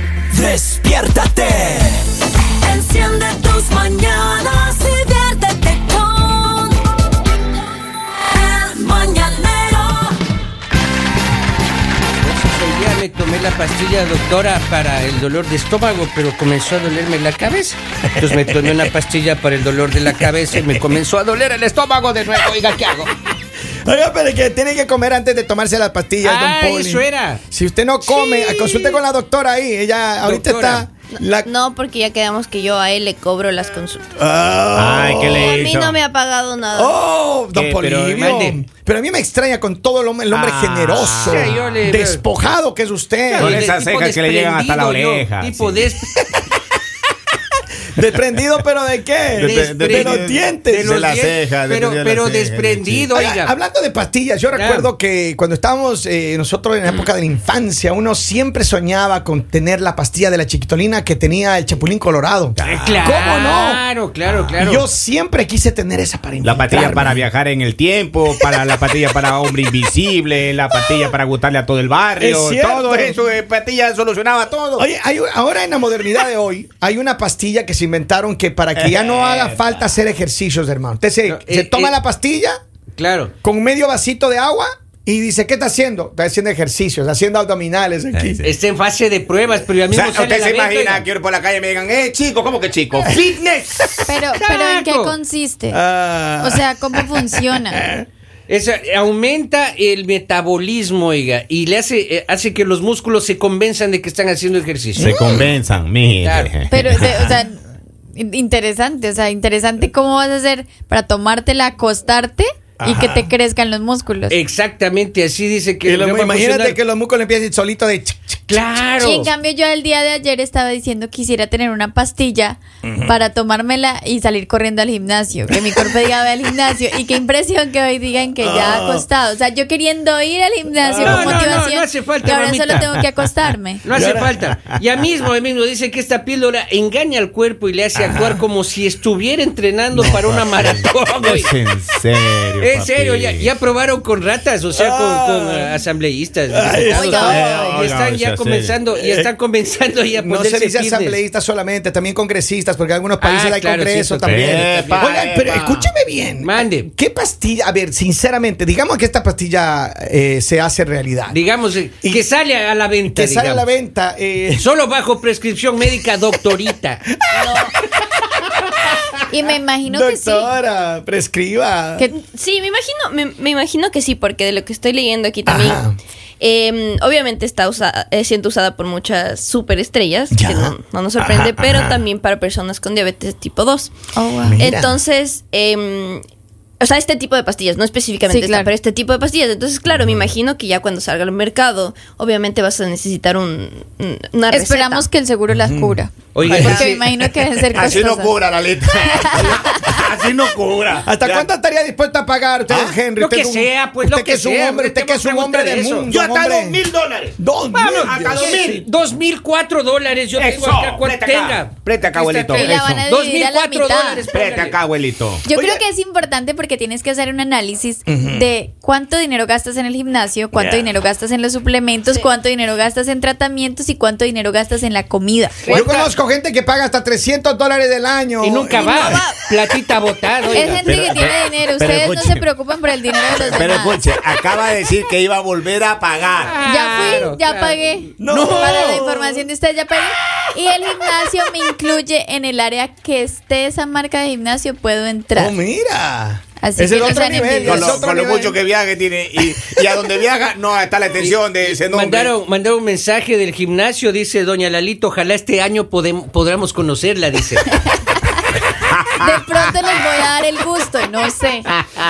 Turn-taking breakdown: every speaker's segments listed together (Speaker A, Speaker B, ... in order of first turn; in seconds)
Speaker A: 0.4-2.0, 2.6-6.7, 8.4-9.9
Speaker B: 0.5-1.6, 2.6-4.7, 8.5-10.1, 12.2-23.1, 26.2-27.4, 30.2-30.9, 38.1-38.6, 41.2-42.2, 43.3-46.1, 49.4-53.5, 54.5-54.9, 62.6-64.8, 81.2-82.0, 83.0-83.3, 88.4-91.0, 94.4-95.1, 98.5-105.2, 106.2-106.5, 114.3-116.8, 118.5-119.3, 131.0-133.0, 133.8-141.5, 142.6-151.2, 153.2-155.0, 156.4-156.9, 161.3-163.7, 164.6-167.0, 196.3-197.0, 203.2-206.1, 207.7-214.8, 228.4-230.8, 236.4-239.0, 251.2-257.7
Speaker C: 18.3-18.8, 23.8-31.5, 34.2-35.5, 36.7-43.7, 47.9-51.0, 53.1-63.8, 64.6-67.2, 72.2-73.2, 74.8-82.6, 83.4-88.4, 93.9-94.1, 95.7-98.0, 105.0-105.5, 112.8-113.3, 115.8-118.6, 122.8-123.1, 125.5-125.9, 128.4-129.0, 130.8-131.6, 133.9-134.4, 137.9-138.4, 144.7-145.8, 146.5-147.8, 148.9-149.3, 150.1-161.4, 163.1-164.7, 167.3-167.7, 168.4-168.9, 169.8-172.1, 175.4-176.0, 180.3-182.1, 184.4-185.0, 195.5-196.9, 201.0-206.8, 207.4-208.5, 215.5-215.8, 218.1-218.5, 225.7-229.3, 238.2-239.5, 245.3-248.6
Speaker D: 28.0-29.0, 31.1-34.1, 35.3-37.0, 147.1-147.7, 167.3-167.7, 172.1-175.8, 176.4-184.0, 184.6-186.2, 186.8-195.1, 225.7-226.1, 228.7-229.4, 230.5-230.8
Speaker E: 34.8-36.0, 37.5-38.4, 40.3-41.7, 43.4-45.9, 49.3-53.1, 62.6-63.0, 64.3-64.6, 66.4-74.9, 78.7-79.8, 88.1-88.5, 89.9-93.9, 105.0-107.3, 139.9-143.5, 147.3-148.8, 154.2-155.9, 197.7-201.5, 202.7-203.0, 206.1-207.4, 208.0-208.9, 210.3-213.1, 214.3-215.4, 230.8-232.5, 233.3-236.6, 247.6-252.3, 258.9-259.4
Speaker F: 94.1-95.8, 96.4-97.8, 106.7-107.6, 108.1-114.4, 119.0-133.8, 146.9-147.4, 169.3-170.5, 184.1-184.7, 188.3-188.7, 194.5-198.3, 199.1-199.8, 212.5-214.3, 215.4-225.8, 230.5-234.0, 236.6-245.5, 246.6-248.0, 257.8-258.4, 259.1-261.7